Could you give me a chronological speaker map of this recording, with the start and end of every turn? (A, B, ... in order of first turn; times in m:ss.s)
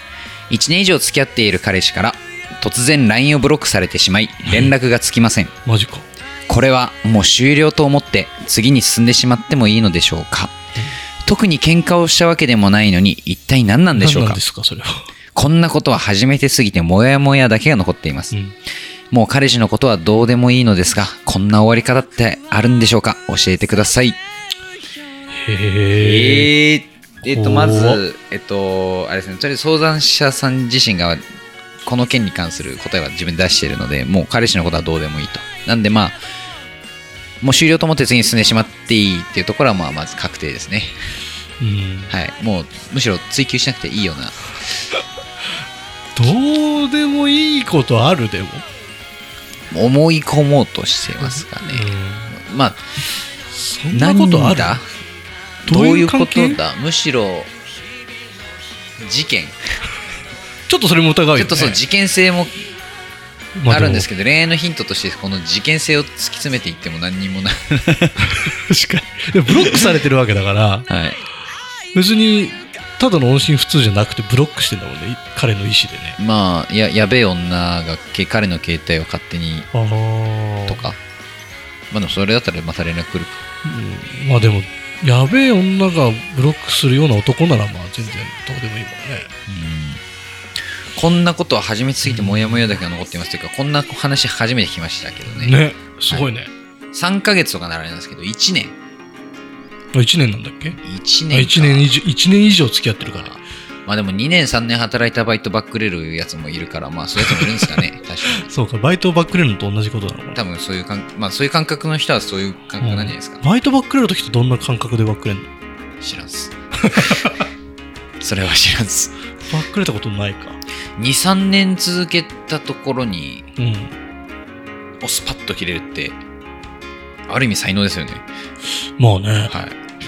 0:00.5-0:05.5 A
0:05.6-0:06.0 B
0:06.5-0:10.5 A
0:11.2-0:14.4 A
0:14.0-0:15.1 B
0:15.3-0:18.3 A
0:19.1-0:24.2 A
0:25.3-0:26.5 B
0:26.0-0:31.2 A
0:27.3-0:28.0 B
0:31.8-0:36.2 A
0:37.4-0:41.0 A
0:41.6-0:42.1 B
0:42.1-0:44.5 A
0:46.2-0:48.6 B
0:49.7-0:52.8 A
0:51.2-0:52.3 B
0:53.5-0:54.8 B
0:53.9-0:54.8 A
0:55.6-0:57.5 A
0:55.7-0:56.6 B
0:59.0-0:59.6 A
1:00.7-1:01.8 B
1:01.3-1:02.6 A
1:03.6-1:04.0 B
1:03.7-1:08.1 A
1:08.3-1:10.9 B
1:10.9-1:11.2 A
1:11.9-1:16.2 B
1:16.2-1:19.7 A
1:19.7-1:20.9 B
1:20.7-1:21.0 A
1:21.9-1:23.4 A
1:23.6-1:29.3 B
1:29.5-1:30.0 A
1:30.9-1:35.6 A
1:32.0-1:32.7 B
1:35.4-1:36.5 B
1:36.9-1:38.8 A
1:39.9-1:40.8 B
1:40.8-1:41.9 A
1:41.3-1:43.3 B
1:43.0-1:48.5 A
1:47.2-1:47.7 B
1:48.4-1:50.4 B
1:50.3-1:53.4 A
1:52.8-1:55.5 B
1:56.0-1:57.2 A
1:56.8-1:57.3 B
1:58.2-1:59.1 A
1:59.5-2:00.6 B
2:01.0-2:03.5 A
2:03.6-2:03.9 B
2:05.0-2:06.2 A
2:07.3-2:08.2 A
2:09.0-2:09.5 B
2:09.5-2:09.8 A